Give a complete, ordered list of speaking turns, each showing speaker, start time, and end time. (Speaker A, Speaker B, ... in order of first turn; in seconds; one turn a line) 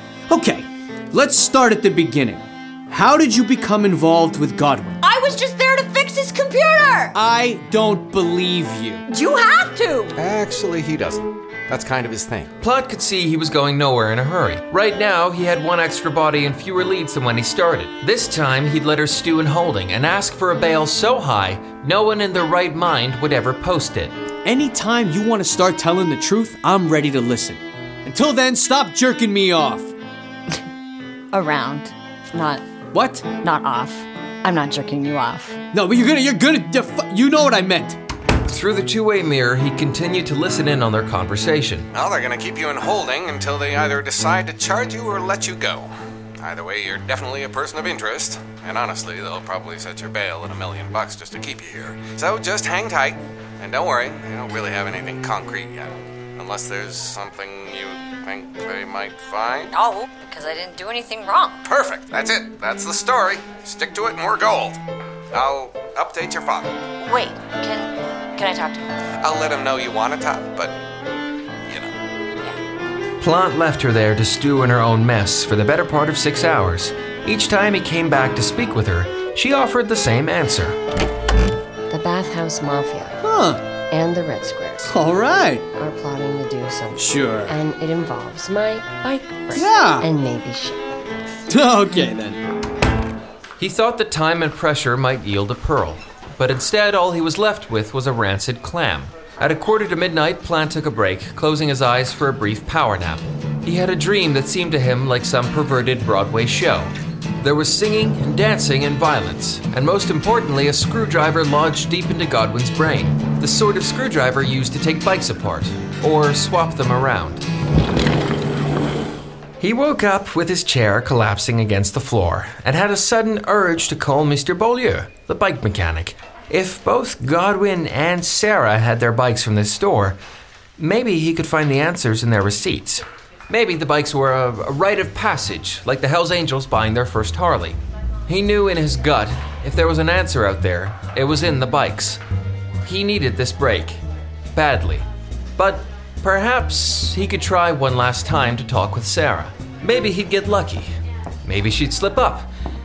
Speaker A: 0.3-5.0
Speaker B: 5.0-7.1
Speaker A: 7.1-9.0
Speaker B: 9.1-10.1
Speaker C: 10.1-12.5
Speaker D: 12.6-24.1
Speaker A: 24.4-29.9
Speaker B: 31.3-32.7
Speaker A: 32.9-33.3
Speaker B: 33.2-35.6
Speaker A: 35.7-38.0
Speaker D: 38.5-41.9
Speaker C: 41.9-59.7
Speaker B: 59.7-61.6
Speaker C: 61.6-64.8
Speaker C: 65.3-66.8
Speaker B: 67.0-68.8
Speaker C: 69.2-70.7
Speaker C: 71.7-71.9
Speaker D: 73.2-80.8
Speaker E: 81.9-83.2
Speaker A: 83.2-83.6
Speaker E: 83.9-84.9
Speaker A: 84.8-85.6
Speaker E: 85.7-90.8
Speaker A: 86.9-87.5
Speaker A: 89.5-90.0
Speaker A: 91.5-92.4
Speaker D: 93.6-117.4
Speaker D: 119.6-130.2
Speaker D: 130.8-142.2
Speaker D: 142.8-144.0
Speaker D: 144.5-145.0
Speaker D: 145.6-150.9
Speaker D: 151.4-152.5